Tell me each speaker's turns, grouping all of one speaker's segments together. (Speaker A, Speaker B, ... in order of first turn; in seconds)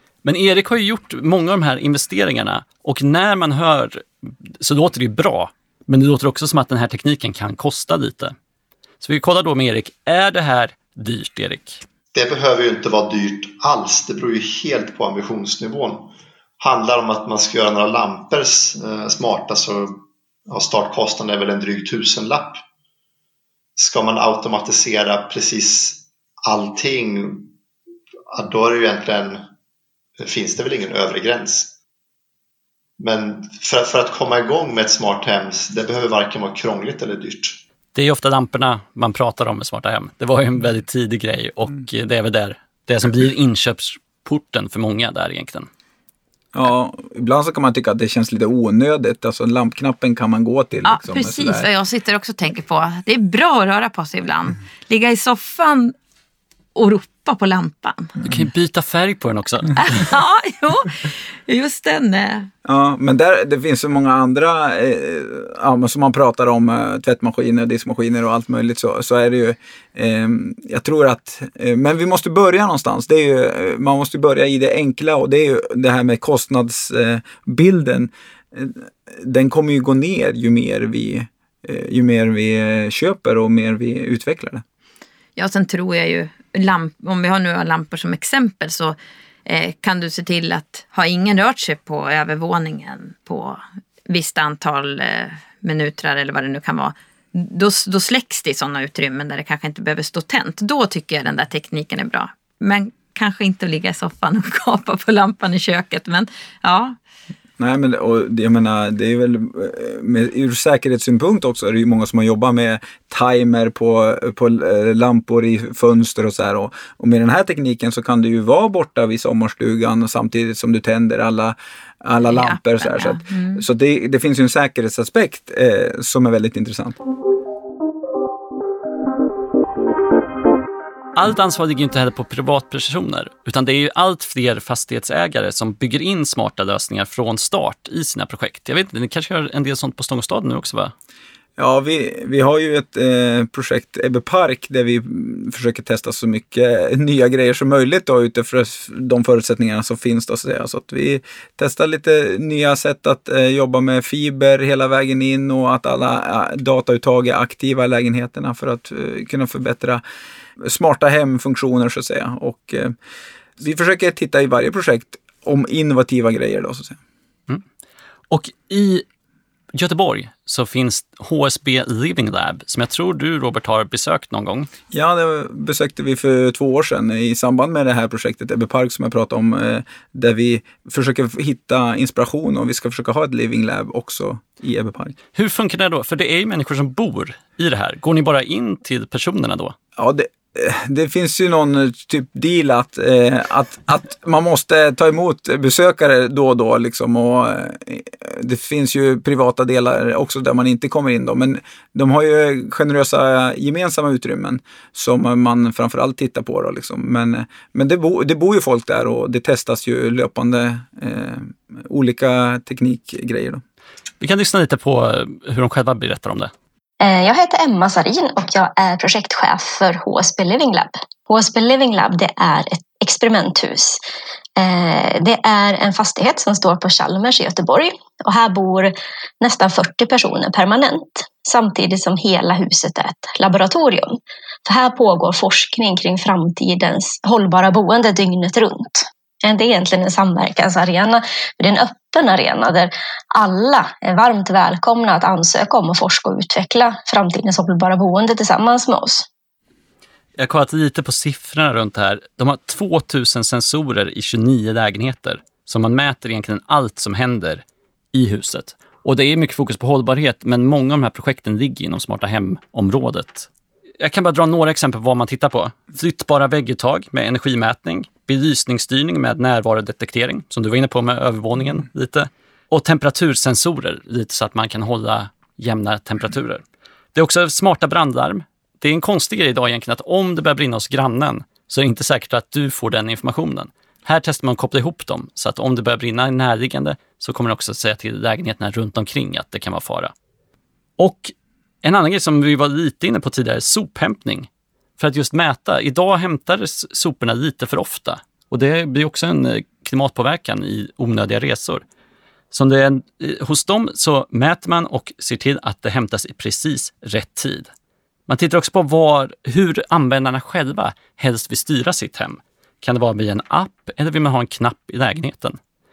Speaker A: 0.2-8.3, 9.0-11.8, 37.9-45.7, 58.2-60.0, 131.1-140.9, 168.3-169.0, 169.7-174.7, 185.3-189.8, 214.2-216.5, 250.4-263.5, 264.0-276.6, 277.1-290.1, 291.0-294.5, 295.0-301.8, 302.5-307.7, 308.3-315.6
Speaker B: 12.1-22.6, 23.8-27.5, 28.3-29.4, 30.2-31.7, 33.0-37.6
Speaker C: 46.5-51.7, 62.6-84.6, 107.6-127.0, 141.6-160.0, 160.6-162.9, 163.6-167.0, 174.9-185.2, 190.0-213.6
Speaker D: 50.8-55.9, 56.7-58.2, 59.8-62.5, 85.3-107.0, 122.2-123.6
Speaker E: 217.0-224.0, 224.6-249.2